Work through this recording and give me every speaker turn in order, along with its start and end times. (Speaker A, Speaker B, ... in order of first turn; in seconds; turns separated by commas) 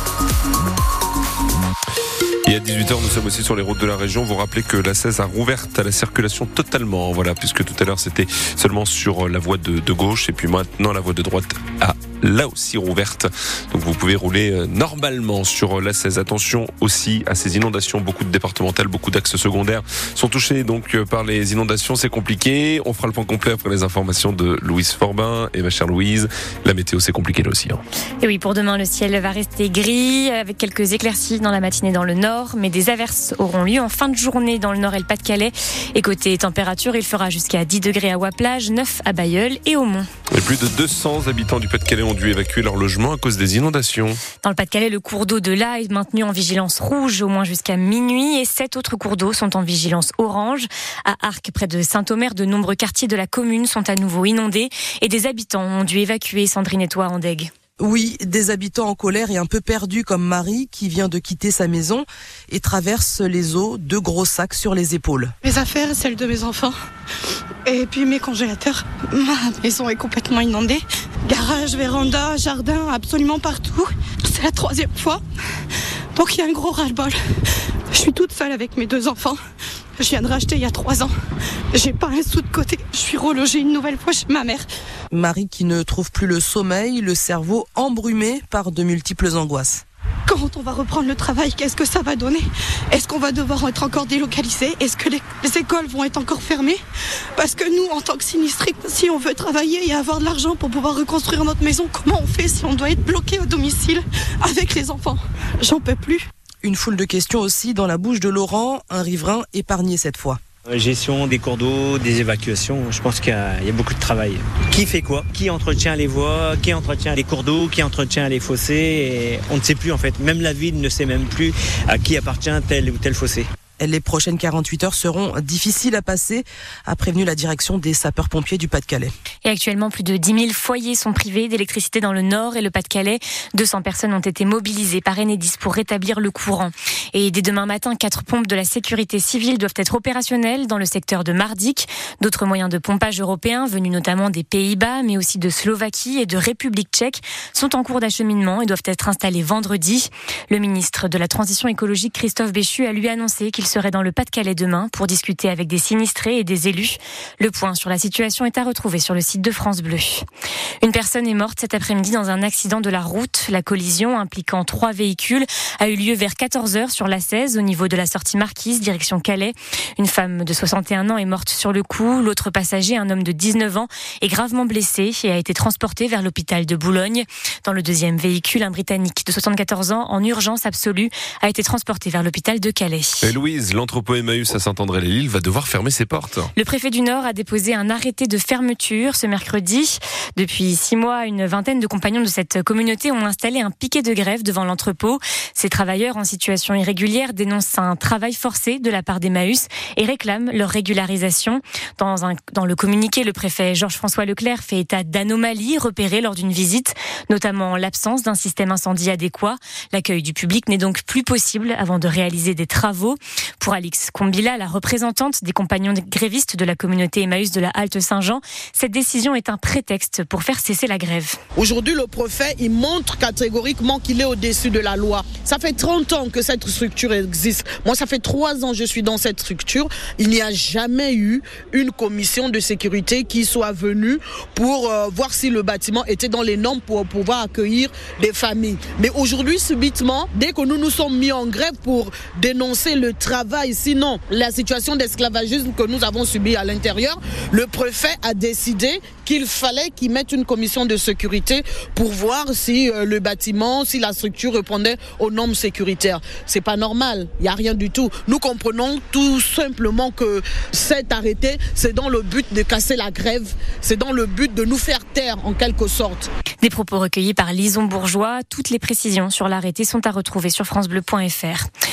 Speaker A: 2.5-27.8, Speaker B: 28.2-40.1, Speaker A: 40.3-44.2, Speaker B: 44.4-57.5, Speaker C: 57.8-65.3, Speaker D: 65.4-66.7, Speaker D: 67.7-75.2, Speaker D: 76.1-77.1, Speaker D: 77.9-79.3, Speaker D: 80.0-81.1, Speaker D: 81.7-84.7, Speaker C: 85.1-89.8, Speaker D: 90.3-96.8, Speaker D: 97.4-106.3, Speaker C: 106.6-110.4, Speaker E: 110.7-123.5, Speaker C: 123.8-129.1, Speaker B: 129.4-160.2, Speaker B: 160.8-183.3, Speaker A: 183.2-186.5, Speaker B: 186.6-221.4, Speaker F: 221.6-266.3, Speaker B: 266.6-271.7